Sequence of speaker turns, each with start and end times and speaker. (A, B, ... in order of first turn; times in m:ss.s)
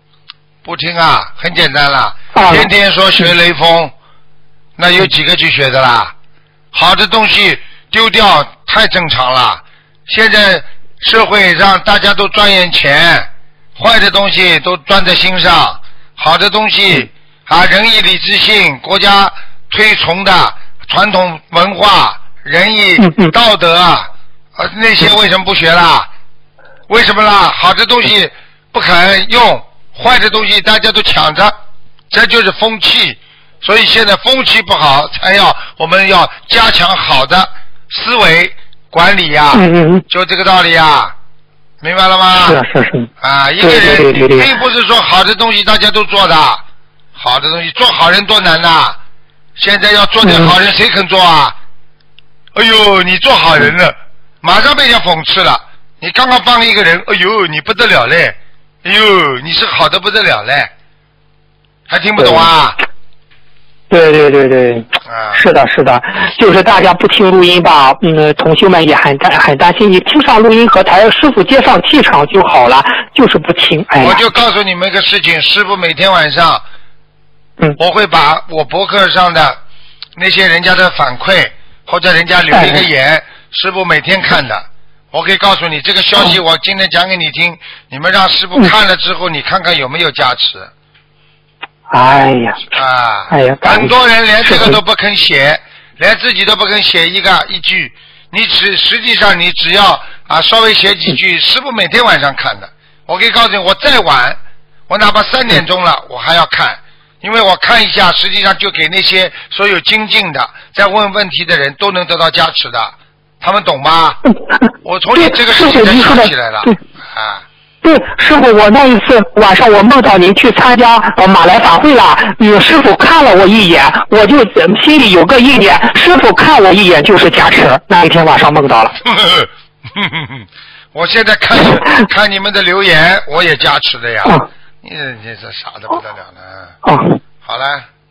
0:00.6-0:03.9 A
0:02.3-0:02.7 B
0:04.8-0:06.1 A
0:06.7-0:26.1 A
0:23.0-0:23.3 B
0:26.9-0:31.6 A
0:32.1-0:41.1 A
0:39.5-0:40.0 B
0:41.8-0:42.6 A
0:42.4-0:43.1 B
0:43.2-0:46.6 A
0:43.6-0:44.5 B
0:47.2-0:49.0 A
0:49.6-0:51.6 A
0:50.2-0:50.5 B
0:52.6-1:00.7 A
1:01.9-1:02.8 A
1:02.2-1:02.5 B
1:03.9-1:14.2 B
1:05.1-1:05.4 A
1:14.0-1:16.6 A
1:17.8-1:19.6 A
1:20.2-1:30.7 A
1:22.6-1:22.8 B
1:31.9-1:32.6 B
1:32.7-1:44.4 A
1:33.3-1:33.9 B
1:44.9-1:54.2 A
1:54.8-1:57.4 A
1:55.2-1:56.8 B
1:57.8-2:09.0 B
2:09.0-2:16.7 A
2:16.8-2:17.2 B
2:17.4-2:17.9 A